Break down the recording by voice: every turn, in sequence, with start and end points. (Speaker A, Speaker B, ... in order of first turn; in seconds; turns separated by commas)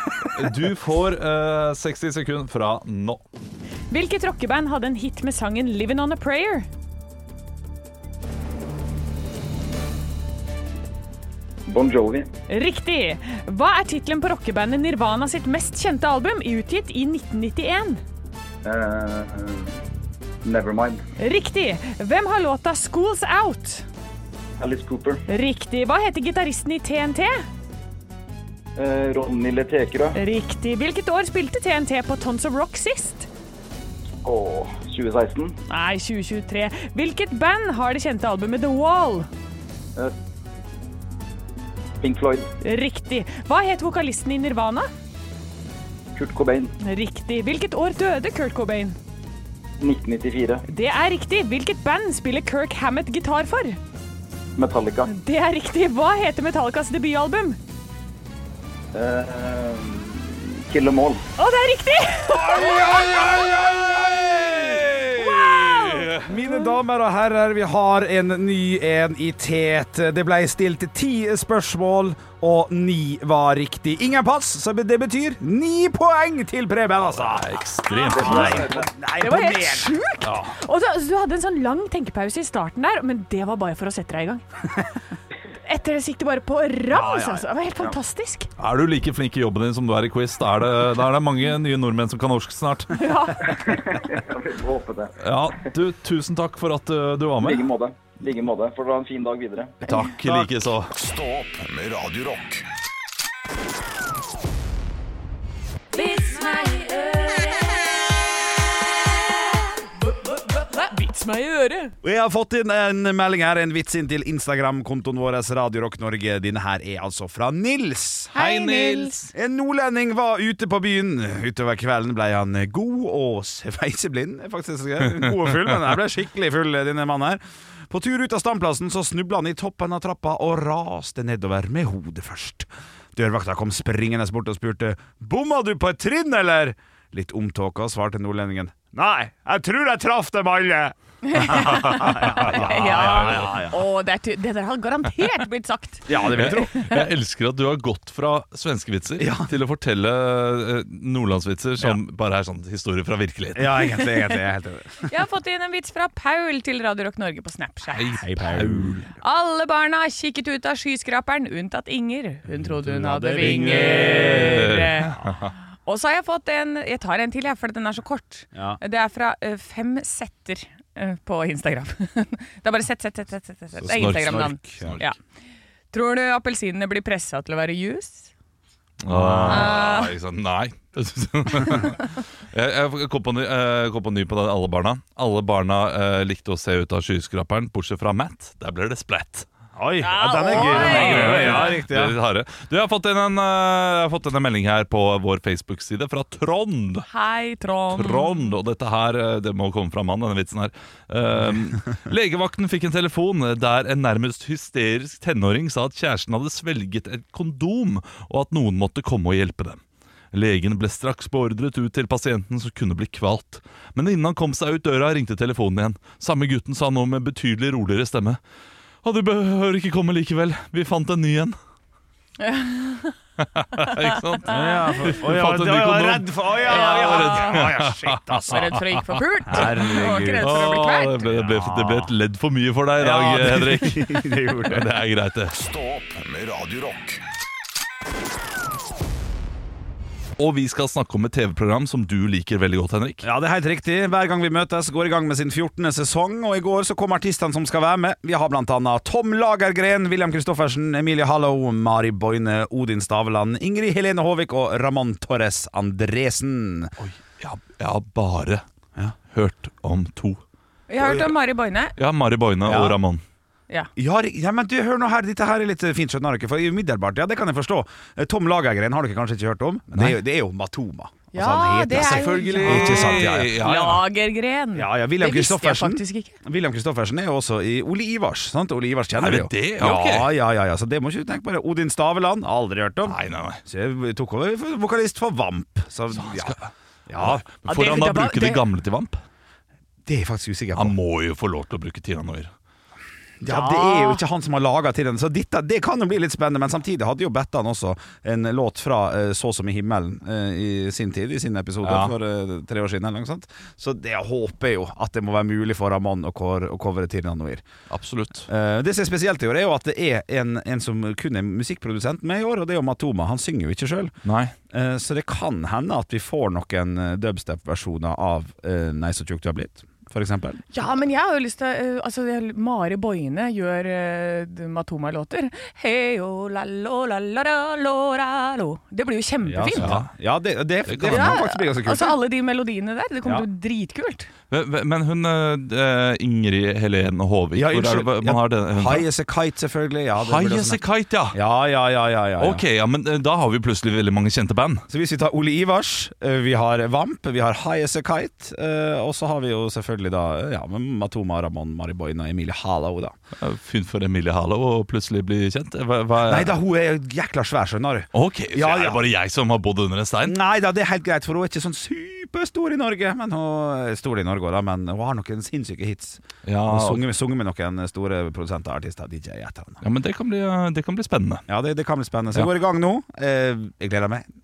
Speaker A: 0.2-3.2, Speaker B: 3.9-6.7, Speaker C: 11.7-12.3, Speaker B: 12.5-18.0, Speaker C: 18.6-19.7, Speaker C: 20.4-21.0, Speaker B: 21.2-23.9, Speaker C: 24.6-25.2, Speaker B: 25.3-27.4, Speaker C: 28.8-30.2, Speaker B: 30.1-33.3, Speaker C: 34.2-35.6, Speaker B: 35.7-39.3, Speaker C: 42.0-42.5, Speaker B: 42.6-44.9, Speaker C: 46.1-46.8, Speaker B: 46.8-49.0, Speaker C: 49.8-50.6, Speaker B: 50.7-53.8, Speaker C: 54.6-55.1, Speaker B: 55.1-57.6, Speaker C: 58.9-61.2, Speaker B: 61.4-63.3, Speaker D: 62.5-65.5, Speaker A: 63.0-63.7, Speaker A: 64.3-64.8, Speaker B: 65.2-66.8, Speaker A: 65.7-66.2, Speaker D: 66.2-77.5, Speaker A: 77.0-78.7, Speaker B: 77.9-78.7, Speaker C: 78.1-78.9, Speaker D: 78.2-80.0, Speaker B: 79.2-84.4, Speaker A: 80.2-80.5, Speaker B: 85.6-88.5, Speaker D: 86.9-87.5, Speaker A: 88.6-93.0, Speaker B: 92.9-93.6, Speaker C: 93.4-95.2, Speaker A: 95.2-97.7, Speaker C: 97.4-99.8, Speaker A: 99.8-100.9, Speaker E: 100.9-102.7, Speaker B: 105.9-107.8, Speaker B: 110.3-111.9, Speaker D: 112.0-118.3, Speaker B: 118.3-119.2, Speaker A: 118.3-119.3, Speaker D: 119.3-143.8, Speaker B: 141.2-147.0, Speaker A: 142.9-143.5, Speaker D: 146.1-146.8, Speaker A: 146.3-153.9, Speaker D: 149.2-149.5, Speaker D: 153.6-155.2, Speaker B: 155.0-158.2, Speaker A: 157.9-159.1, Speaker D: 158.2-159.0, Speaker B: 159.2-165.2, Speaker D: 162.8-165.4, Speaker A: 163.4-165.4, Speaker B: 165.8-175.2, Speaker D: 168.5-168.8, Speaker D: 173.8-175.0, Speaker A: 173.8-175.0, Speaker B: 175.9-178.3, Speaker A: 179.0-189.5, Speaker D: 179.1-179.7, Speaker B: 179.5-180.1, Speaker D: 189.8-192.2, Speaker B: 190.0-191.8, Speaker A: 190.5-197.1, Speaker B: 197.1-198.5, Speaker A: 197.9-209.8, Speaker A: 210.3-218.4, Speaker A: 219.0-221.6, Speaker B: 222.4-223.2, Speaker A: 223.5-228.8, Speaker D: 224.5-228.8, Speaker B: 226.7-227.7, Speaker B: 228.5-231.3, Speaker D: 229.5-230.6, Speaker A: 229.5-235.6, Speaker D: 231.3-232.1, Speaker D: 233.0-234.9, Speaker E: 235.5-237.2, Speaker A: 240.4-243.3, Speaker D: 243.2-256.9, Speaker A: 257.0-258.6, Speaker A: 259.3-260.4, Speaker B: 260.9-261.9, Speaker D: 261.0-261.3, Speaker A: 262.0-263.2, Speaker D: 262.6-263.0, Speaker D: 264.0-273.8, Speaker B: 271.3-276.4, Speaker A: 271.9-274.0, Speaker D: 274.8-286.6, Speaker A: 279.2-280.3, Speaker A: 283.0-283.6, Speaker A: 286.1-286.7, Speaker D: 287.1-287.4, Speaker A: 287.2-289.2, Speaker B: 287.6-288.7, Speaker D: 290.1-290.9, Speaker A: 290.7-292.5, Speaker D: 293.4-307.6, Speaker B: 293.4-294.2, Speaker A: 301.8-302.1, Speaker A: 307.9-308.5, Speaker D: 308.5-314.1, Speaker A: 314.2-314.5, Speaker D: 314.7-320.6, Speaker B: 320.7-330.0, Speaker D: 329.4-332.2, Speaker A: 329.8-330.1, Speaker A: 330.9-331.4, Speaker B: 331.1-334.3, Speaker A: 334.5-339.1, Speaker D: 337.5-340.8, Speaker A: 340.2-341.4, Speaker D: 341.3-342.6, Speaker A: 342.4-344.9, Speaker D: 344.9-353.2, Speaker A: 353.4-356.5, Speaker D: 356.2-359.1, Speaker A: 358.1-360.4, Speaker D: 360.2-369.8, Speaker A: 366.4-367.0, Speaker A: 369.8-371.4, Speaker D: 371.5-374.3